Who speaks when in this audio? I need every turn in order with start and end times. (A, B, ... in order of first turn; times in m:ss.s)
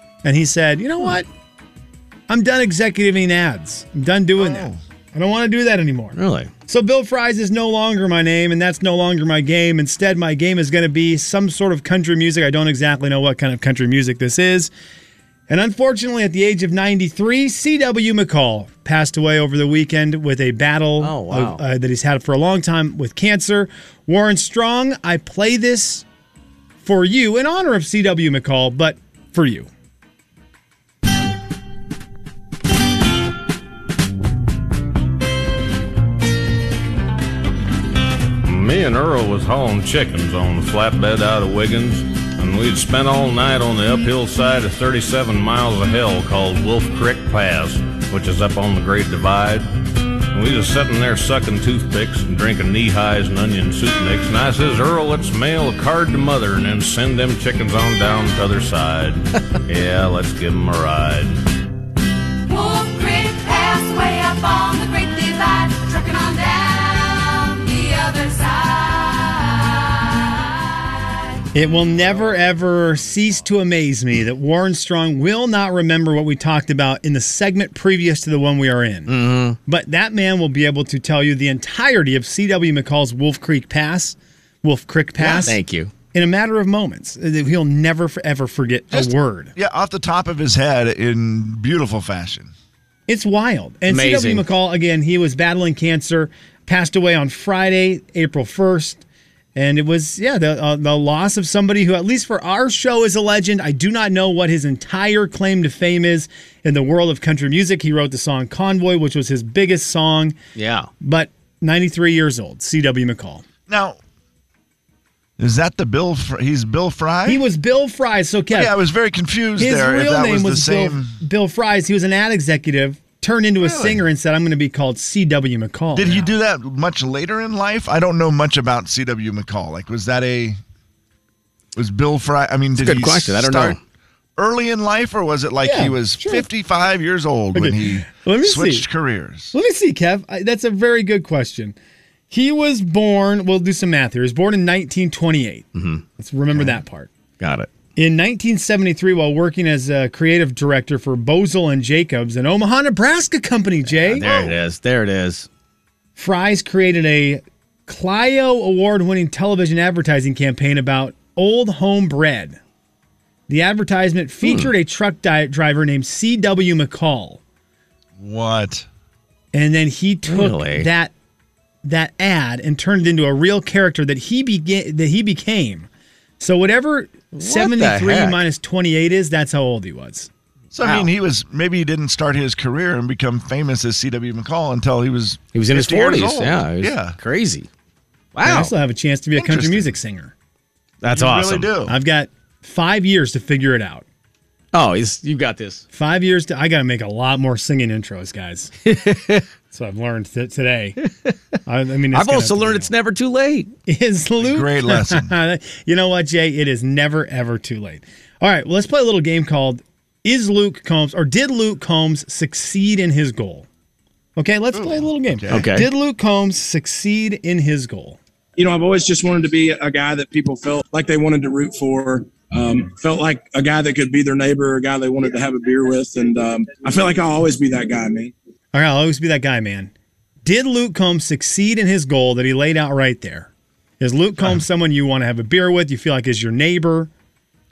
0:00.2-0:01.3 A
0:02.3-0:14.7 A
0:04.4-0:04.8 B
0:06.1-0:06.5 C
0:15.5-0:26.0 A
0:21.0-0:21.6 C
0:26.8-0:29.7 A
0:38.4-0:49.7 D
0:50.3-1:01.4 D
1:02.5-1:10.5 E
1:11.5-1:25.6 A
1:19.1-1:19.6 C
1:25.2-1:25.5 B
1:25.2-1:25.9 C
1:26.1-1:29.5 A
1:28.9-1:32.5 B
1:33.1-1:39.0 A
1:33.9-1:34.4 C
1:39.5-1:50.4 A
1:50.6-1:50.9 C
1:51.0-1:53.4 A
1:53.7-1:54.0 B
1:55.4-1:57.4 B
1:57.2-1:58.7 A
1:58.5-2:01.2 B
1:59.6-2:06.3 A
2:03.6-2:04.0 B
2:05.9-2:10.6 B
2:11.7-2:13.8 B
2:12.8-2:13.8 C
2:14.4-2:19.5 B
2:15.6-2:16.4 A
2:17.5-2:18.8 A
2:19.5-2:21.8 A
2:22.3-2:27.1 A
2:25.7-2:26.0 C
2:27.4-2:27.7 C
2:28.0-2:34.3 A
2:33.9-2:35.5 C
2:34.2-2:34.6 B
2:36.2-2:42.6 A
2:43.5-2:47.4 A
2:44.4-2:44.7 C
2:48.2-2:48.9 B
2:49.5-2:51.1 A
2:50.3-2:50.9 C
2:51.8-2:55.9 A
2:56.4-3:00.3 A
2:57.3-2:58.4 C
3:00.7-3:07.2 B
3:00.8-3:01.1 C
3:05.5-3:07.7 C
3:08.3-3:08.7 C
3:08.4-3:10.3 A
3:09.3-3:10.0 B
3:11.0-3:11.7 C
3:11.1-3:12.0 B
3:11.8-3:14.0 A
3:14.7-3:15.8 C
3:15.9-3:18.7 A
3:18.8-3:19.5 C
3:19.7-3:21.0 A
3:21.6-3:22.9 A
3:22.1-3:23.7 C
3:23.9-3:33.7 A
3:24.4-3:25.3 B
3:34.4-3:38.2 A
3:34.7-3:35.7 B
3:35.5-3:35.9 C
3:38.6-3:48.3 F
3:48.7-3:49.9 A
3:50.4-3:57.1 A